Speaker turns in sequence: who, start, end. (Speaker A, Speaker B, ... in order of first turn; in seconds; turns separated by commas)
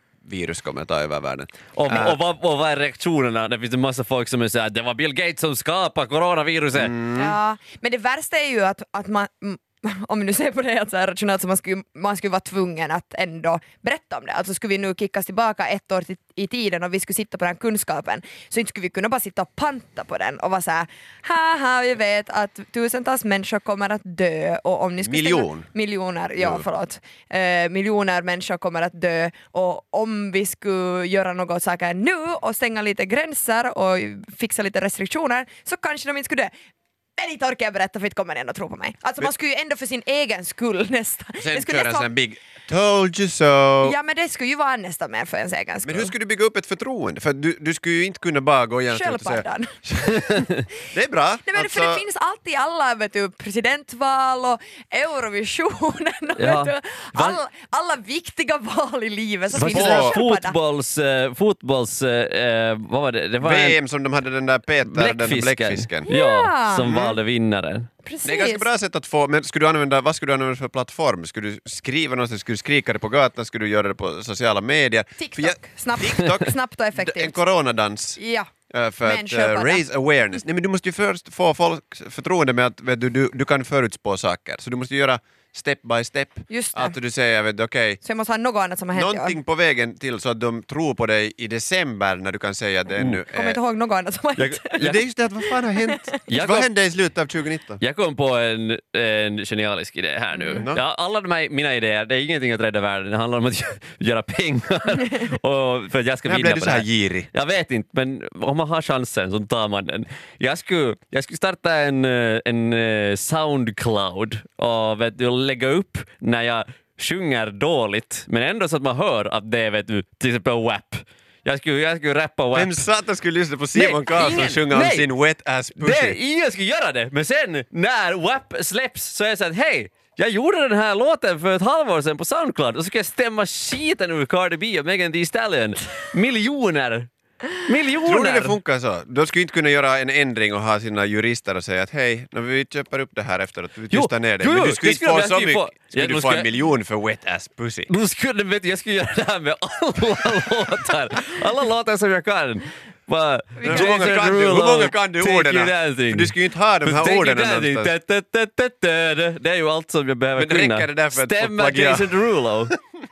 Speaker A: 0.2-2.2, Speaker B: 1.8-6.9, Speaker A: 6.7-7.4, Speaker C: 7.1-36.5, Speaker A: 25.0-25.7, Speaker A: 26.4-26.6, Speaker C: 37.2-42.1, Speaker A: 41.4-44.0, Speaker C: 43.8-46.1, Speaker A: 45.8-52.0, Speaker C: 48.9-49.8, Speaker C: 51.5-60.6, Speaker B: 56.4-57.4, Speaker A: 59.5-60.2, Speaker B: 59.6-63.8, Speaker A: 63.4-66.1, Speaker B: 64.8-67.9, Speaker C: 66.1-66.9, Speaker A: 66.8-67.2, Speaker C: 68.0-68.7, Speaker A: 68.2-78.2, Speaker C: 75.2-77.4, Speaker C: 78.2-78.5, Speaker A: 78.7-88.0, Speaker C: 79.0-79.8, Speaker C: 86.5-87.0, Speaker C: 88.0-89.4, Speaker A: 88.9-93.6, Speaker C: 93.3-94.9, Speaker B: 94.4-95.0, Speaker A: 94.8-97.8, Speaker C: 95.8-96.2, Speaker B: 96.3-96.7, Speaker B: 97.8-122.8, Speaker C: 100.3-100.7, Speaker A: 100.6-100.8, Speaker A: 106.3-107.3, Speaker A: 122.5-126.2, Speaker B: 123.8-125.1, Speaker B: 125.8-138.6, Speaker A: 138.1-147.9, Speaker B: 143.9-146.5, Speaker B: 147.9-162.7, Speaker C: 153.6-153.9, Speaker A: 153.6-157.9, Speaker A: 160.4-162.8